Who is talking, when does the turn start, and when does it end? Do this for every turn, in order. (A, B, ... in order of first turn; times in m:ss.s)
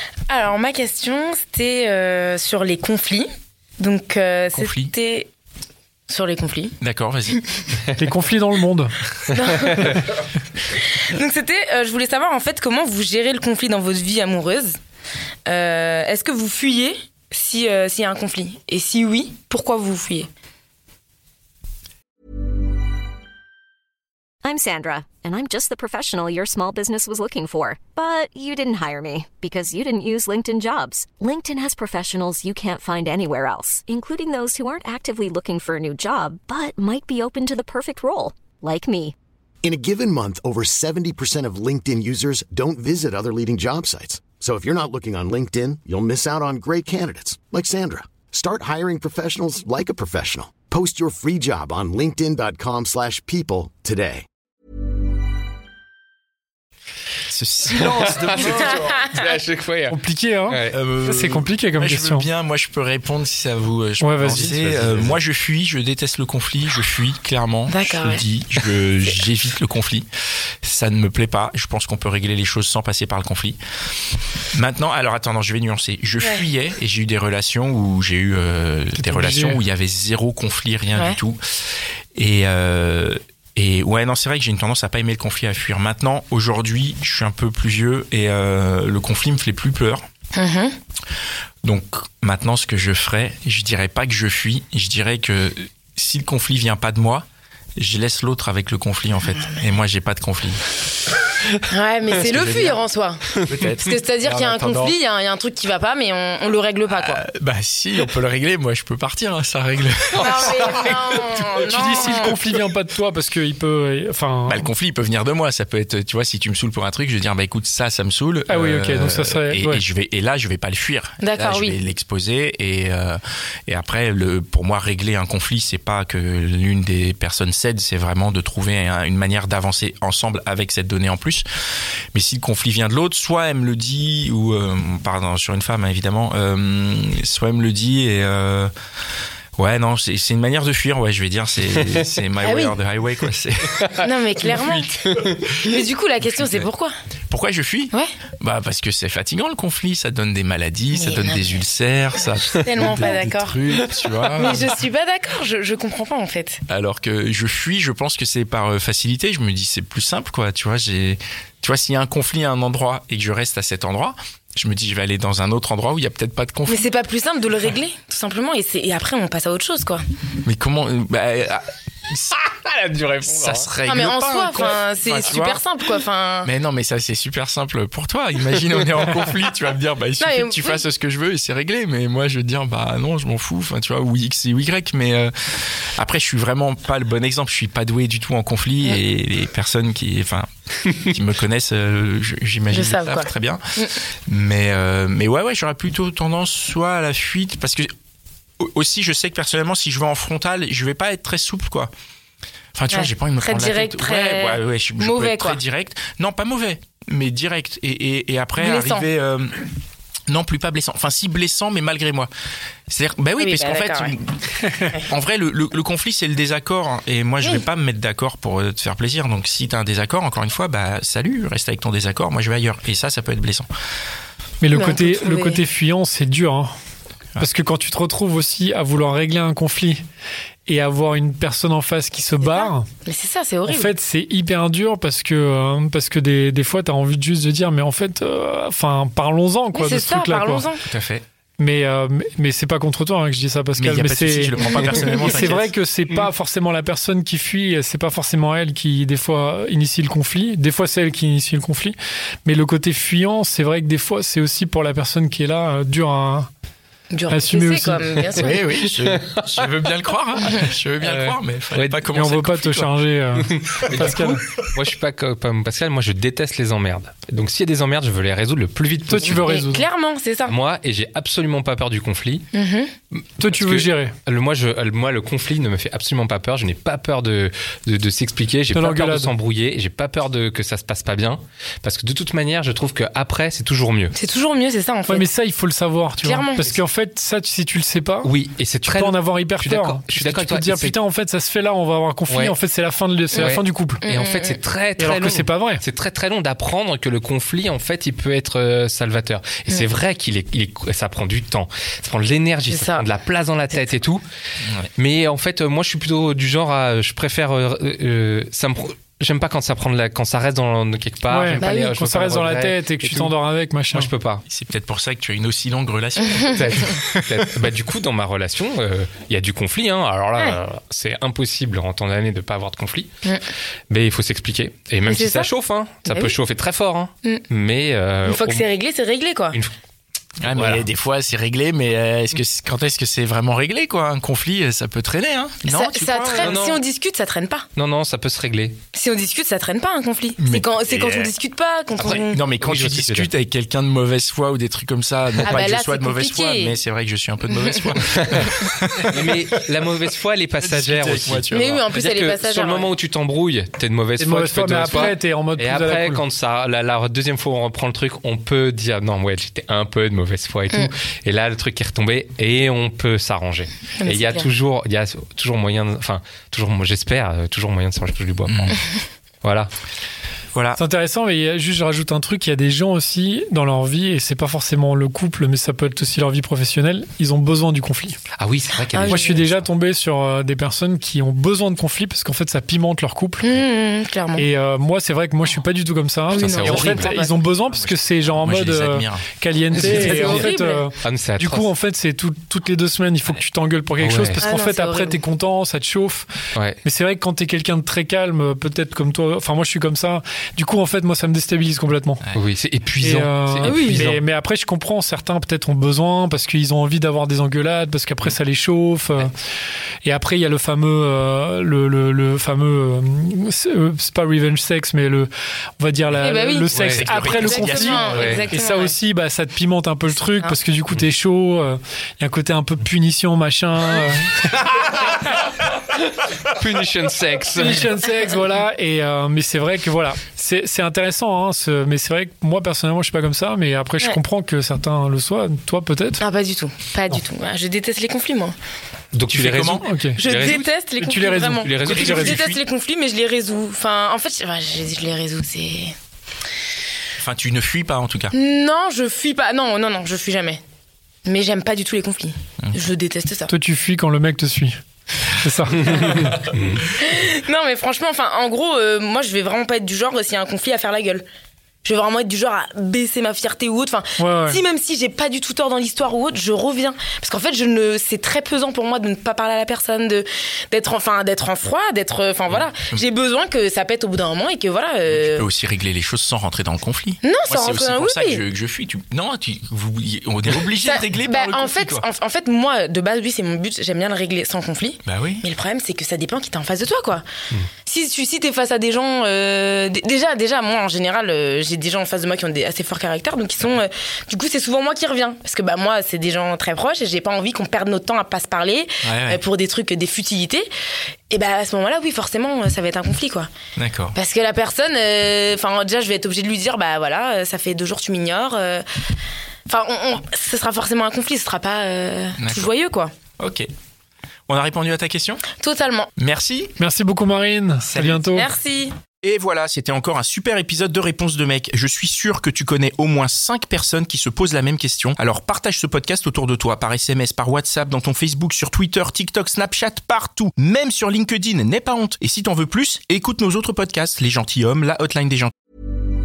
0:00.3-0:03.3 A
0:03.8-0:05.3 A
0:04.6-0:04.9 B
0:06.1-0:06.8 A
0:06.8-0:07.4 B
0:08.0-0:08.9 C
0:09.3-0:09.9 A
0:10.7-0:14.8 A
0:15.5-0:20.3 A
0:24.4-0:39.1 D
0:39.6-0:54.3 E
0:57.3-0:59.0 B
0:57.7-1:00.0 F
0:58.5-0:59.2 A
0:59.9-1:02.3 C
1:00.5-1:00.8 F
1:00.7-1:10.1 B
1:04.0-1:04.5 C
1:04.2-1:05.2 F
1:07.7-1:08.2 A
1:10.6-1:13.6 B
1:14.5-1:21.4 B
1:19.0-1:19.6 C
1:22.1-1:30.0 B
1:30.3-1:30.7 A
1:31.6-1:37.2 B
1:37.8-1:40.6 B
1:41.7-1:43.2 A
1:42.1-1:42.8 B
1:43.4-1:45.0 B
1:43.8-1:47.2 A
1:46.9-1:52.3 B
1:50.1-1:52.4 A
1:50.2-1:51.0 F
1:51.6-1:54.7 C
1:54.5-2:11.4 B
1:58.5-1:59.8 C
2:01.2-2:01.8 A
2:12.1-2:18.7 B
2:19.6-2:23.8 B
2:22.4-2:22.7 A
2:24.0-2:24.9 A
2:24.4-2:24.9 B
2:25.0-2:25.6 F
2:25.6-2:26.9 A
2:27.3-2:34.7 B
2:30.9-2:31.5 A
2:32.6-2:33.6 A
2:34.3-2:36.6 A
2:36.7-2:46.8 B
2:46.7-2:50.0 A
2:50.4-2:52.4 B
2:52.6-2:53.7 F
2:53.2-2:55.6 B
2:53.8-2:56.5 A
2:56.4-3:13.6 B
3:00.2-3:00.8 A
3:12.7-3:13.9 A
3:14.2-3:17.9 B
3:18.6-3:21.9 B
3:22.7-3:29.6 B
3:22.9-3:25.6 A
3:28.6-3:29.1 A
3:30.3-3:32.3 B
3:32.9-3:34.2 B
3:33.4-3:34.1 A
3:35.1-3:43.7 B
3:44.6-3:46.7 C
3:44.7-3:45.6 A
3:47.4-3:50.0 C
3:50.7-3:52.9 C
3:52.4-3:53.9 A
3:53.7-4:00.7 C
3:59.7-4:00.8 A
4:00.9-4:01.2 B
4:01.6-4:16.5 C
4:03.8-4:05.7 B
4:04.6-4:05.0 A
4:17.1-4:18.6 A
4:17.3-4:18.1 C
4:18.3-4:22.9 B
4:19.1-4:19.4 F
4:21.0-4:22.0 F
4:22.1-4:24.4 C
4:23.4-4:29.5 F
4:29.1-4:29.9 C
4:29.2-4:30.6 A
4:30.4-4:32.5 F
4:32.5-4:32.9 A
4:33.1-4:44.2 F
4:33.4-4:34.1 C
4:38.7-4:39.3 C
4:44.1-4:45.3 A
4:45.1-4:48.3 C
4:46.2-4:46.8 A
4:48.2-4:51.0 F
4:48.8-4:54.0 C
4:52.3-4:52.6 F
4:53.3-4:54.6 A
4:53.4-5:04.2 F
4:55.0-4:55.8 C
5:02.7-5:03.1 A
5:04.6-5:04.9 B
5:05.0-5:13.3 F
5:11.3-5:14.1 C
5:11.6-5:11.9 A
5:13.9-5:14.4 F
5:14.5-5:17.2 B
5:16.5-5:23.1 F
5:23.9-5:28.7 F
5:25.1-5:25.5 A
5:26.1-5:26.3 A
5:28.2-5:29.6 A
5:30.4-5:36.6 B
5:30.5-5:30.9 F
5:35.6-5:37.7 A
5:36.4-5:36.8 F
5:37.8-5:38.8 F
5:38.9-5:42.4 A
5:40.4-5:41.3 B
5:42.0-5:43.3 F
5:42.0-5:49.2 B
5:45.4-5:46.8 A
5:47.4-5:47.9 A
5:48.2-5:48.4 F
5:49.1-6:08.8 F
5:50.6-5:51.8 B
5:51.5-5:52.9 A
5:54.2-5:56.2 C
6:04.0-6:04.5 A
6:08.5-6:08.8 B
6:09.4-6:09.7 F
6:10.5-6:10.8 B
6:10.8-6:18.2 C
6:18.4-6:19.7 F
6:18.9-6:19.4 A
6:19.1-6:23.5 C
6:23.4-6:24.5 A
6:24.4-6:36.2 C
6:26.3-6:27.5 A
6:26.3-6:27.1 F
6:27.7-6:30.4 B
6:29.8-6:30.2 F
6:29.8-6:30.8 A
6:31.0-6:31.7 F
6:34.0-6:34.4 F
6:34.4-6:35.2 A
6:36.6-6:36.8 F
6:36.8-6:42.2 C
6:42.3-6:44.2 F
6:43.0-6:49.3 C
6:43.6-6:44.0 A
6:50.0-7:04.7 C
6:56.1-6:56.7 A
6:56.7-6:57.3 F
6:56.8-6:58.2 B
6:57.2-6:58.9 A
6:57.9-6:58.5 F
7:00.2-7:00.6 A
7:05.9-7:07.9 F
7:07.6-7:16.2 C
7:08.0-7:08.6 A
7:16.2-7:18.6 A
7:19.1-7:20.8 F
7:19.3-7:19.9 B
7:19.8-7:20.2 C
7:20.0-7:25.9 A
7:21.0-7:22.4 C
7:21.6-7:22.4 F
7:21.8-7:22.6 B
7:27.2-7:28.3 B
7:28.3-7:30.6 A
7:31.2-7:33.5 A
7:33.5-7:34.8 C
7:35.2-7:36.4 C
7:36.5-7:36.8 F
7:36.9-7:41.2 A
7:41.8-7:55.5 A
7:44.2-7:44.6 C
7:52.5-7:53.0 B
7:55.1-8:02.1 B
7:57.2-7:58.4 A
8:00.8-8:07.2 A
8:05.0-8:05.4 B
8:07.8-8:20.7 A
8:19.0-8:19.4 B
8:21.3-8:23.5 A
8:23.8-8:24.2 B
8:24.2-8:28.8 A
8:29.7-8:33.1 A
8:32.4-8:32.7 B
8:33.4-8:33.7 B
8:34.5-8:35.4 B
8:35.6-8:36.1 A
8:36.2-8:36.7 B
8:36.8-8:38.5 C
8:37.8-8:38.2 B
8:38.3-8:38.9 A
8:39.2-8:55.5 B